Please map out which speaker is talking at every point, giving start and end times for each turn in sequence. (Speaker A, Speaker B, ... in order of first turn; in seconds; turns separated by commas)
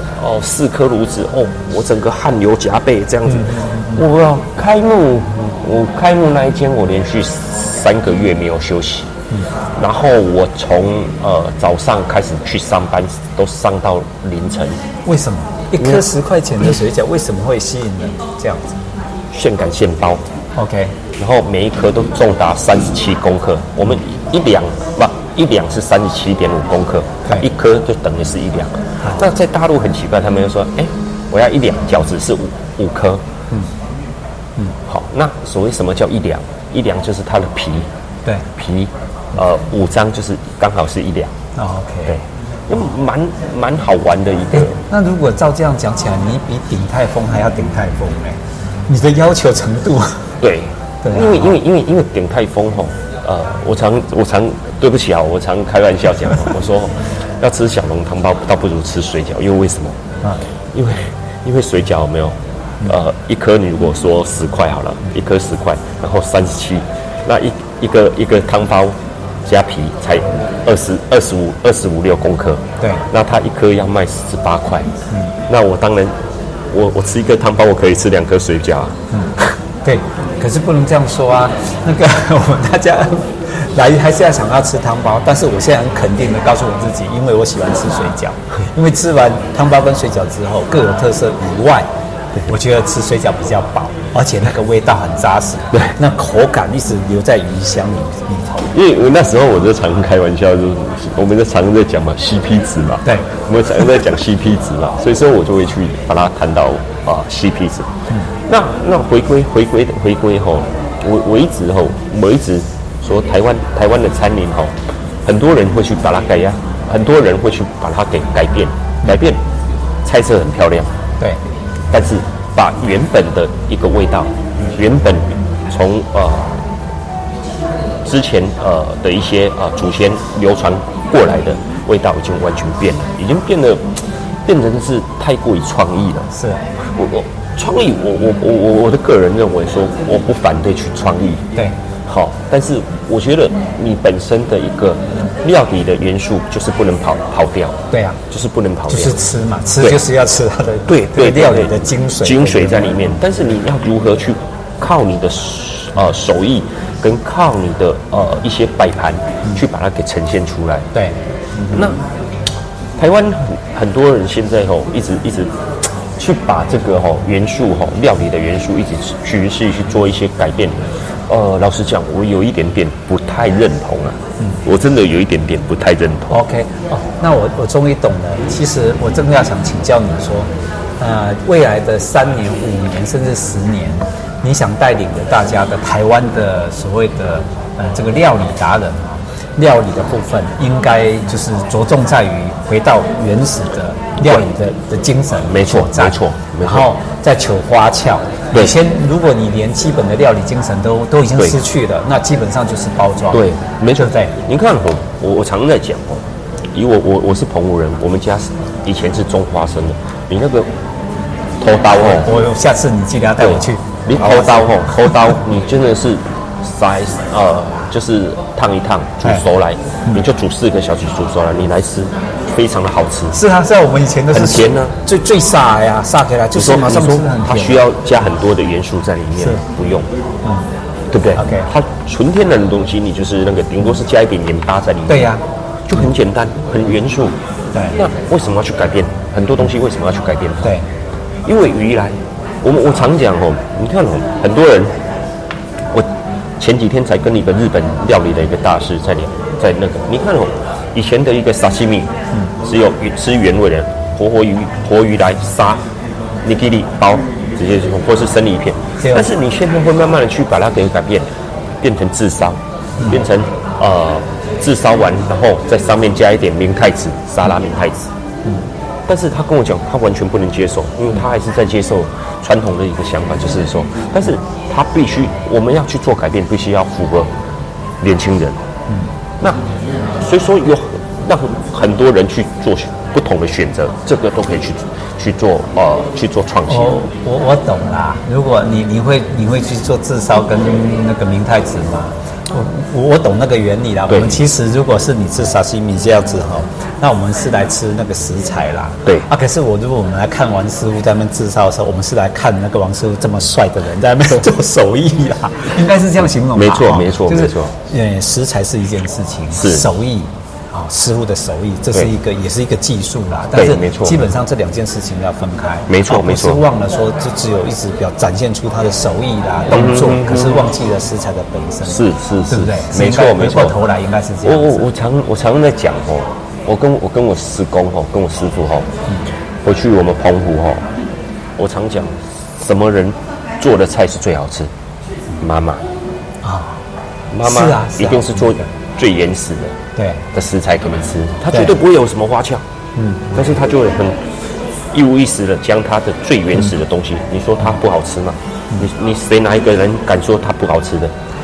Speaker A: 0.2-9.1, Speaker B: 3.3-4.0, Speaker A: 9.8-14.8, Speaker B: 15.1-18.8, Speaker A: 15.8-16.0, Speaker A: 19.3-20.2, Speaker B: 20.6-20.9, Speaker A: 21.2-33.2, Speaker A: 34.9-37.9, Speaker A: 38.6-41.3, Speaker B: 41.6-42.2, Speaker A: 42.1-44.8, Speaker B: 44.5-48.4, Speaker B: 48.9-50.2, Speaker A: 50.4-60.0, Speaker B: 51.0-51.5, Speaker A: 60.7-69.0, Speaker A: 69.5-74.9, Speaker A: 75.5-76.1, Speaker A: 76.7-79.0, Speaker B: 79.8-91.9, Speaker B: 92.4-98.7, Speaker A: 98.7-107.9, Speaker A: 108.5-114.7, Speaker A: 115.2-119.4, Speaker A: 120.0-120.9, Speaker A: 121.9-126.6, Speaker A: 128.1-136.3, Speaker B: 136.3-136.6, Speaker A: 136.9-141.4, Speaker A: 142.1-147.8, Speaker B: 147.9-148.2, Speaker A: 148.3-149.2, Speaker B: 148.9-153.0, Speaker A: 150.9-160.9, Speaker B: 160.9-161.9, Speaker A: 161.7-162.0, Speaker A: 163.0-165.5, Speaker A: 166.2-176.4, Speaker B: 176.3-180.5, Speaker B: 181.0-203.4, Speaker A: 195.5-196.9, Speaker A: 203.3-206.2, Speaker B: 204.0-204.3, Speaker A: 206.7-210.7, Speaker A: 211.6-212.3, Speaker B: 212.0-215.3, Speaker A: 213.4-223.4, Speaker B: 223.3-227.8, Speaker A: 224.3-224.9, Speaker A: 226.5-230.1, Speaker A: 231.1-237.3, Speaker B: 231.4-231.7, Speaker B: 235.1-235.4, Speaker A: 237.9-240.7, Speaker A: 241.4-244.9, Speaker A: 246.6-252.1, Speaker A: 252.6-255.8, Speaker A: 256.4-261.3, Speaker A: 261.8-268.1, Speaker A: 269.1-277.3, Speaker A: 278.0-278.6, Speaker A: 280.2-287.0, Speaker B: 286.7-324.9, Speaker A: 294.1-294.4, Speaker A: 306.5-307.7, Speaker A: 309.5-309.9, Speaker A: 313.5-314.3, Speaker A: 315.9-316.6, Speaker A: 319.7-320.7, Speaker A: 321.9-323.8, Speaker A: 324.4-328.9, Speaker A: 329.6-330.9, Speaker A: 331.6-334.7, Speaker A: 335.4-335.8, Speaker B: 336.4-336.8, Speaker A: 337.3-339.8, Speaker B: 337.4-338.6, Speaker B: 340.0-340.2, Speaker A: 340.3-342.6, Speaker B: 343.0-343.5, Speaker A: 343.3-344.2, Speaker A: 344.9-351.1